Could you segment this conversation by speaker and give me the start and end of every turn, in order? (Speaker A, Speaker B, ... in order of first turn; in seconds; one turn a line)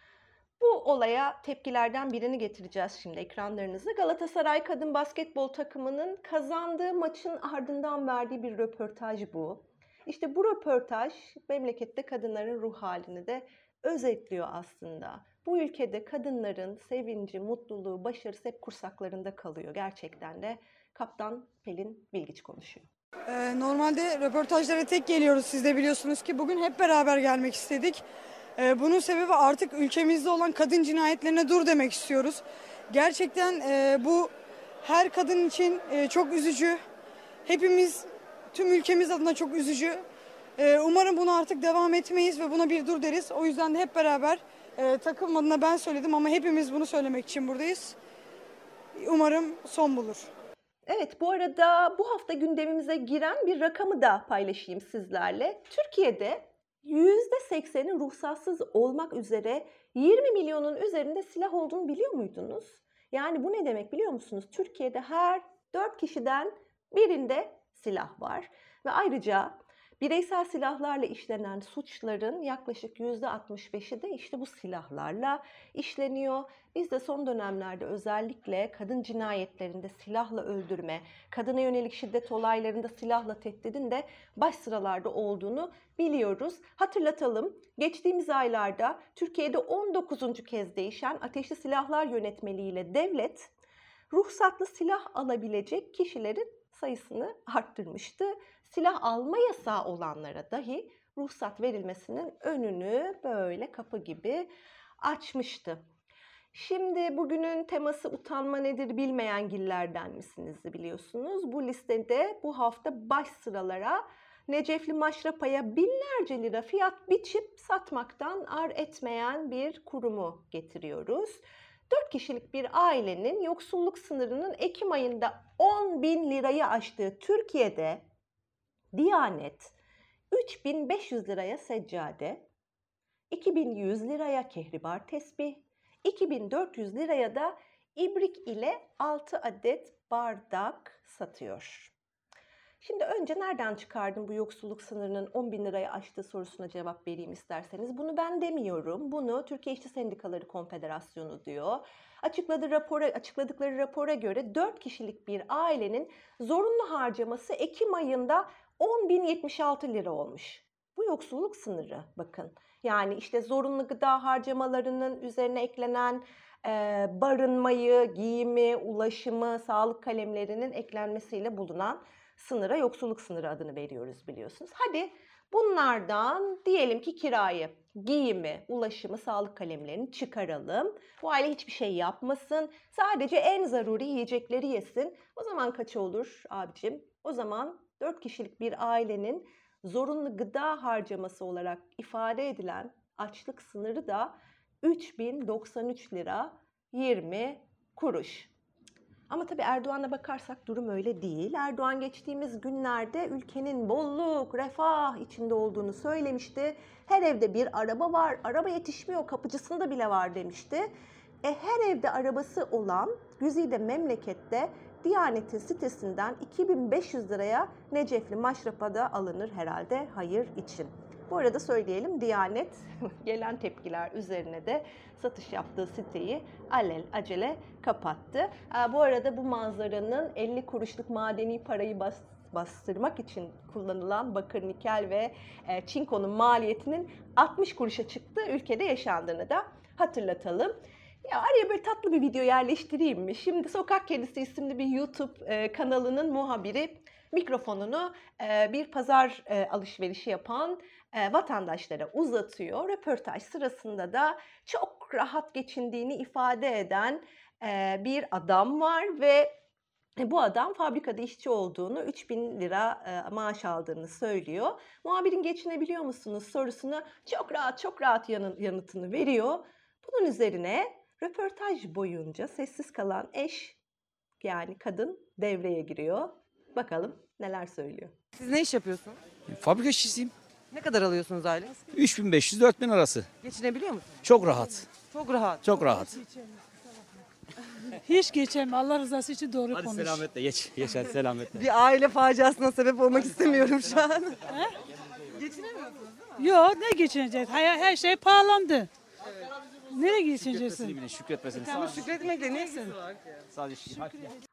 Speaker A: 0.6-22.9
Speaker B: 23.3-28.0
Speaker B: 28.6-36.8
Speaker B: 37.5-40.0
Speaker B: 40.6-48.0
Speaker B: 48.9-50.3
Speaker A: 50.9-93.5
Speaker A: 94.1-104.5
Speaker A: 105.0-105.8
Speaker A: 106.5-128.0
Speaker A: 128.9-129.7
Speaker A: 130.3-132.4
Speaker A: 133.3-141.9
Speaker A: 142.8-198.5
Speaker A: 199.3-210.9
Speaker A: 211.4-259.5
Speaker A: 260.2-273.8
Speaker A: 274.4-278.1
Speaker C: 278.3-279.2
Speaker D: 279.5-280.3
Speaker C: 280.7-281.9
Speaker D: 281.9-283.3
Speaker C: 283.4-284.2
Speaker D: 284.2-284.9
Speaker C: 285.0-285.6
Speaker D: 285.6-286.2
Speaker E: 287.9-290.2
Speaker D: 289.7-291.6
Speaker C: 291.5-294.4
Speaker E: 294.5-294.7
Speaker C: 295.3-296.1
Speaker E: 296.4-298.9
Speaker E: 299.9-301.0
Speaker D: 300.4-302.2
Speaker C: 301.7-303.1
Speaker D: 303.5-304.3